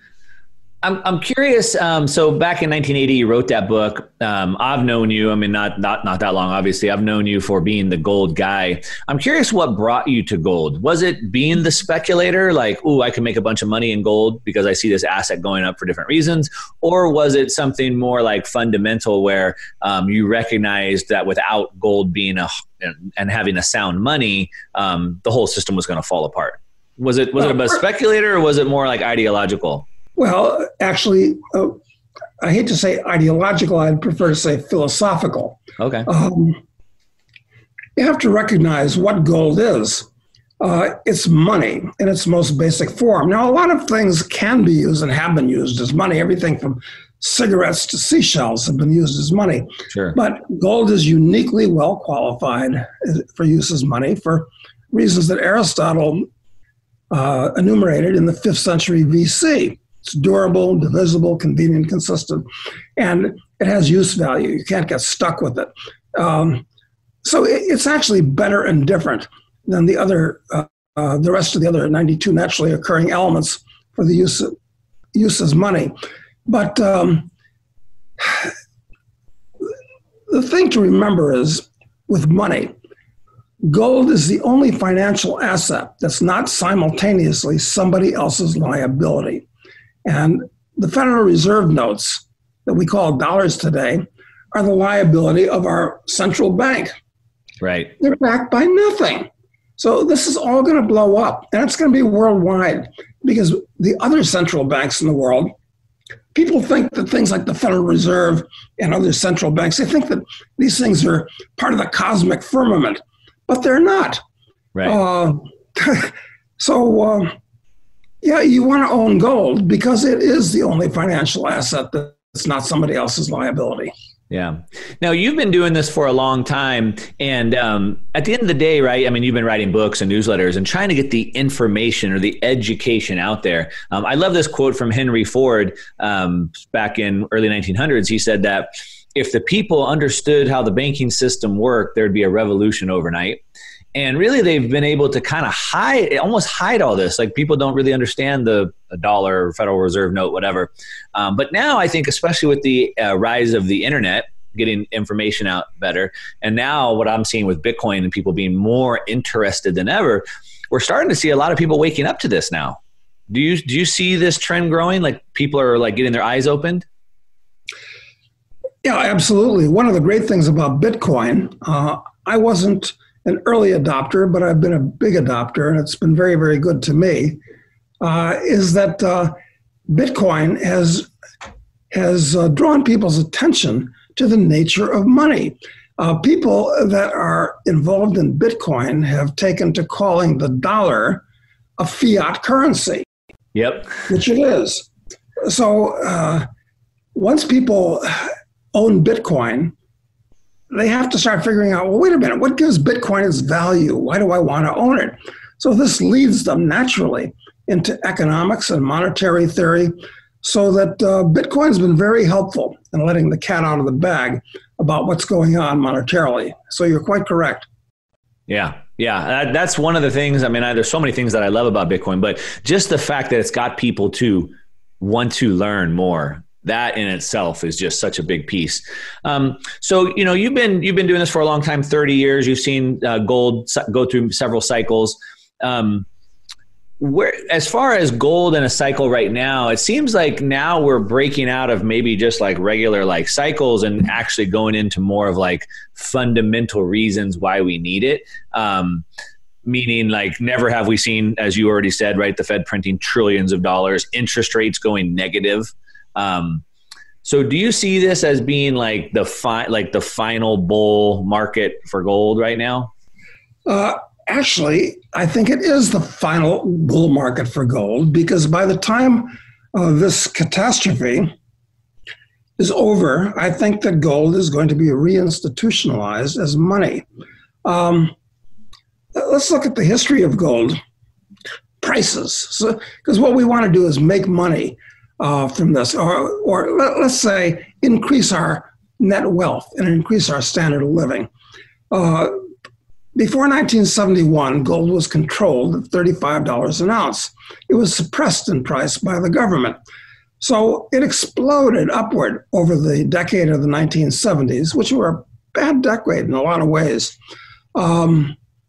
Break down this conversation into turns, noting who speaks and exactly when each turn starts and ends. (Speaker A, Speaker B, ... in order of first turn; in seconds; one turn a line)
Speaker A: 0.8-29.9
Speaker B: 30.2-31.8
Speaker B: 32.4-36.6
Speaker A: 35.8-36.1
Speaker B: 38.0-40.1
Speaker B: 40.6-56.3
Speaker A: 49.9-50.2
Speaker B: 57.1-62.5
Speaker B: 63.0-66.7
Speaker B: 67.2-74.5
Speaker B: 75.1-75.9
Speaker B: 76.5-77.3
Speaker B: 78.2-78.5
Speaker B: 80.3-82.7
Speaker B: 83.6-89.5
Speaker B: 90.0-96.9
Speaker A: 97.6-97.9
Speaker B: 98.0-105.5
Speaker B: 106.3-114.2
Speaker B: 114.8-117.3
Speaker B: 118.2-123.9
Speaker A: 124.3-143.4
Speaker A: 143.9-162.8
Speaker A: 163.3-166.9
Speaker B: 168.8-177.4
Speaker B: 178.0-179.3
Speaker B: 179.9-181.1
Speaker B: 181.9-191.2
Speaker B: 191.8-193.1
Speaker A: 193.6-194.1
Speaker B: 194.1-194.9
Speaker B: 195.4-196.5
Speaker B: 197.1-199.7
Speaker B: 200.7-217.7
Speaker A: 218.5-236.1
Speaker A: 237.0-249.1
Speaker A: 249.7-256.6
Speaker A: 257.2-262.9
Speaker B: 263.7-271.3
Speaker B: 272.6-277.1
Speaker B: 277.6-278.1
Speaker B: 279.1-280.8
Speaker B: 281.8-291.3
Speaker B: 291.9-292.3
Speaker B: 293.2-299.8
Speaker B: 300.4-307.2
Speaker B: 307.8-308.4